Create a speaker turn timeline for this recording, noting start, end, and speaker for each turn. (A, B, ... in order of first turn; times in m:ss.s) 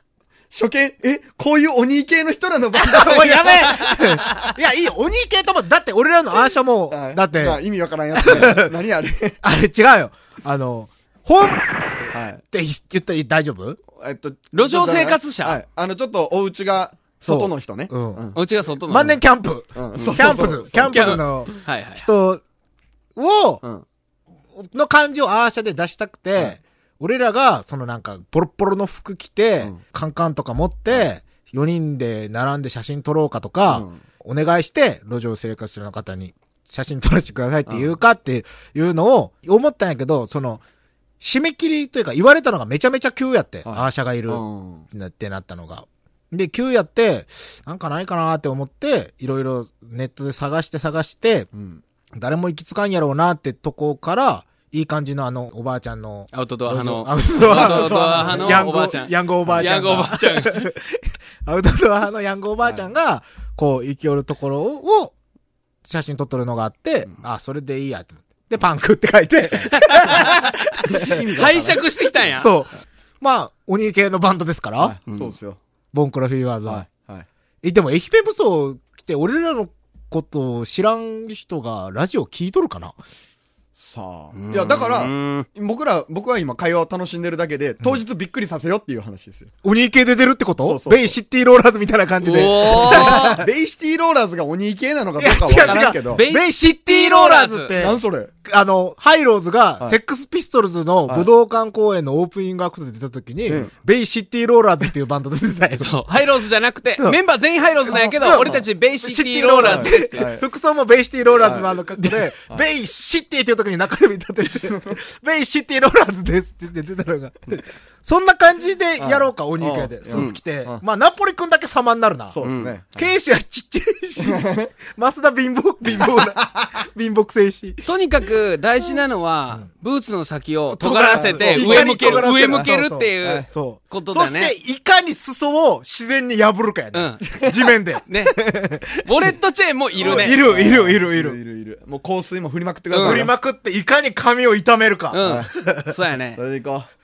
0:00.5-0:04.5 A
0:02.8-0:07.6 B
0:06.9-0:09.4 A
0:08.1-0:08.7 B
0:09.4-0:13.8 B
0:12.1-0:12.4 A
0:13.9-0:18.4 A
0:14.5-0:15.6 C
0:17.2-0:18.2 B
0:18.3-0:19.2 C
0:18.8-0:22.4 B
0:19.7-0:21.5 A
0:20.8-0:22.0 C
0:23.2-0:23.6 B
0:24.6-0:40.6 B
0:33.7-0:34.0 A
0:37.7-0:37.9 A
0:41.2-0:51.5 B
0:43.6-0:44.8 A
0:51.5-0:51.8 A
0:52.1-1:05.1 B
0:56.3-1:00.7 C
0:57.4-0:58.7 A
1:05.8-1:11.3 B
1:09.8-1:12.5 C
1:10.9-1:12.3 A
1:12.4-1:15.0 B
1:14.8-1:15.6 A
1:15.9-1:16.8 B
1:16.6-1:17.3 A
1:17.6-1:23.0 B
1:23.8-1:29.5 A
1:24.3-1:25.5 C
1:29.6-1:33.5 B
1:30.6-1:31.1 A
1:32.2-1:33.4 C
1:32.5-1:36.2 A
1:35.2-1:46.1 B
1:35.6-1:37.8 C
1:37.8-1:38.3 A
1:43.4-1:43.7 A
1:45.8-1:50.3 C
1:47.9-2:02.4 B
1:47.9-1:48.6 A
1:49.6-1:50.4 A
1:51.3-1:51.8 A
1:59.0-2:00.8 A
2:02.3-2:03.1 A
2:02.4-2:02.7 C
2:03.0-2:07.8 B
2:04.2-2:04.7 A
2:06.0-2:06.6 A
2:07.8-2:14.5 C
2:10.7-2:19.3 B
2:11.1-2:13.5 A
2:16.9-2:17.2 C
2:17.3-2:17.6 A
2:18.0-2:18.4 C
2:19.0-2:20.4 C
2:20.0-2:21.4 B
2:20.0-2:23.3 A
2:22.9-2:23.3 C
2:23.0-2:25.9 B
2:25.1-2:26.4 C
2:25.2-2:25.5 A
2:26.4-2:26.9 A